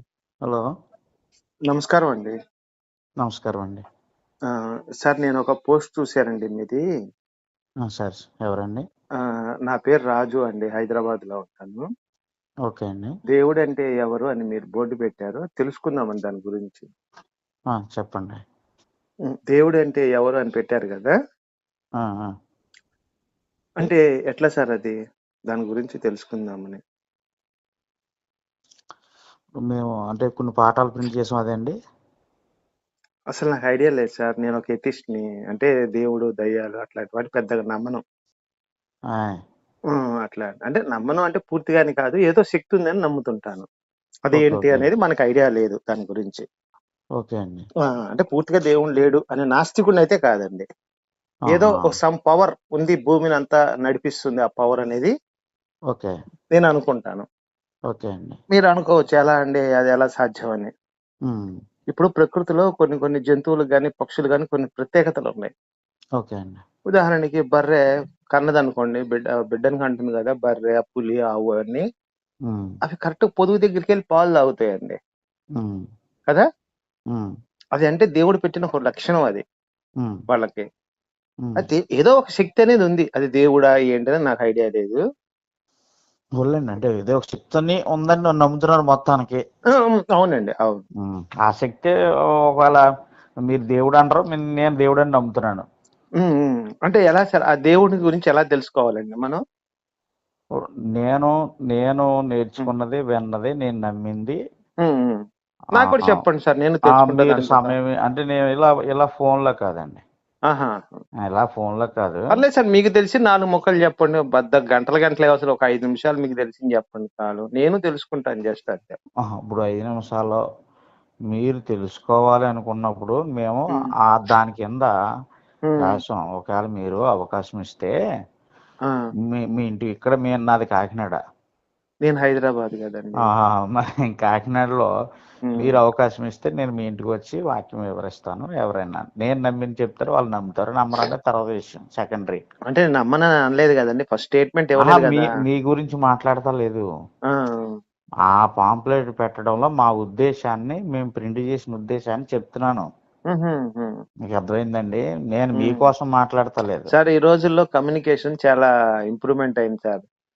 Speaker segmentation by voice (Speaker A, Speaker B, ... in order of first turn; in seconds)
Speaker A: 1.7-2.3, 4.5-6.8, 9.7-11.9, 13.3-16.9, 19.4-21.1, 23.8-25.0, 25.5-26.8, 33.3-38.0, 39.9-43.7, 44.3-46.5, 48.0-50.7, 51.5-55.1, 56.5-57.3, 58.5-60.7, 61.9-65.5, 66.9-67.8, 68.3-71.9, 72.8-75.0, 77.8-79.4, 80.3-80.7, 81.6-85.0, 89.7-90.8, 96.2-99.4, 104.8-105.2, 105.8-107.8, 110.5-111.0, 112.3-119.0, 125.7-126.0, 132.0-133.3, 142.7-145.2, 147.3-147.8, 153.3-154.0, 155.6-155.9, 156.9-160.1
Speaker B: 3.2-3.8, 7.8-8.8, 12.7-13.1, 17.7-18.4, 22.0-22.3, 29.6-31.8, 39.1-39.4, 44.3-44.9, 47.2-47.7, 51.5-51.8, 55.9-56.1, 57.9-58.4, 61.3-61.5, 66.2-66.6, 75.6-75.8, 86.4-89.4, 91.0-92.0, 92.5-92.8, 93.5-95.7, 101.0-104.4, 105.8-106.2, 106.9-110.0, 111.2-112.3, 119.3-120.4, 121.3-124.9, 125.8-127.9, 129.3-131.2, 133.3-134.9, 135.6-142.4, 144.8-146.9, 148.3-152.9, 154.2-156.9